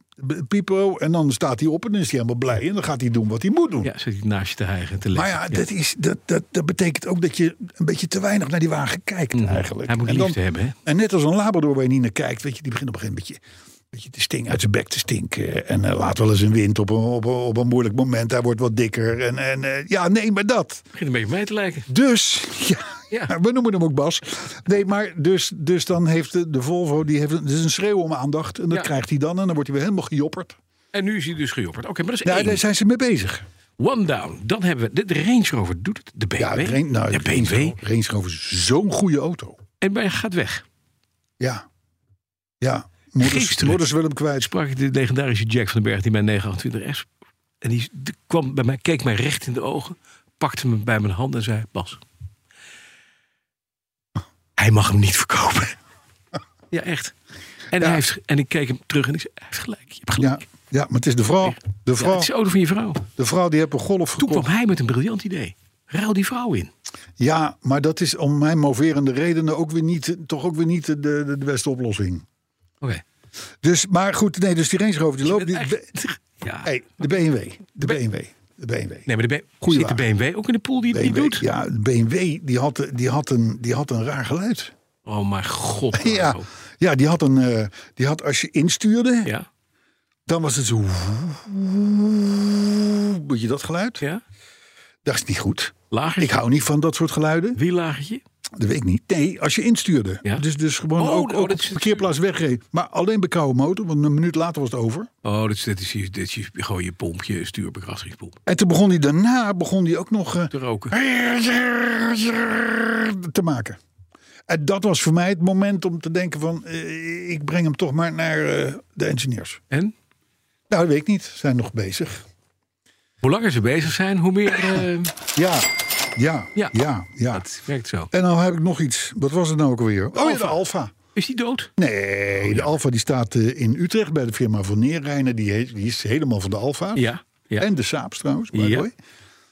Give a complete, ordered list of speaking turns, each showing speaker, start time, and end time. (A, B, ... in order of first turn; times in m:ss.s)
0:00.2-0:03.9 A
0:03.8-0:05.6 B
0:05.1-0:13.4 A
0:09.3-0:10.8 B
0:13.9-0:20.8 A
0:20.9-0:21.9 B
0:21.9-0:30.6 A
0:30.9-0:32.6 B
0:32.2-0:33.4 A
0:33.8-0:37.8 B
0:36.4-0:39.6 A
0:39.8-0:40.6 B
0:41.4-0:41.6 A
0:42.6-0:44.5 A
0:43.2-0:43.8 B
0:44.4-0:47.0 B
0:47.6-0:52.0 B
0:54.6-0:55.8 B
0:56.7-0:57.1 B
0:57.7-1:00.4 B
1:00.2-1:02.3 A
1:01.4-1:03.0 B
1:03.2-1:04.5 A
1:04.2-1:06.7 B
1:07.2-1:12.2 A
1:13.6-1:15.9 A
1:15.2-1:16.7 B
1:16.6-1:19.1 A
1:19.1-1:21.4 B
1:19.6-1:20.0 A
1:20.9-1:24.7 A
1:25.0-1:26.5 B
1:25.9-1:29.3 A
1:30.3-1:34.0 A
1:35.0-1:37.6 A
1:35.9-1:36.4 B
1:37.6-1:38.2 B
1:38.6-1:45.1 A
1:41.0-1:42.0 B
1:45.2-1:48.4 B
1:48.4-1:53.8 A
1:50.5-1:50.9 B
1:54.5-1:59.6 A
2:00.7-2:02.2 A
2:03.2-2:05.1 B
2:05.3-2:07.4 A
2:07.3-2:08.1 B
2:08.1-2:10.9 A
2:10.2-2:10.6 B
2:11.1-2:11.7 B
2:11.8-2:18.9 A
2:17.0-2:17.6 B
2:18.5-2:18.9 B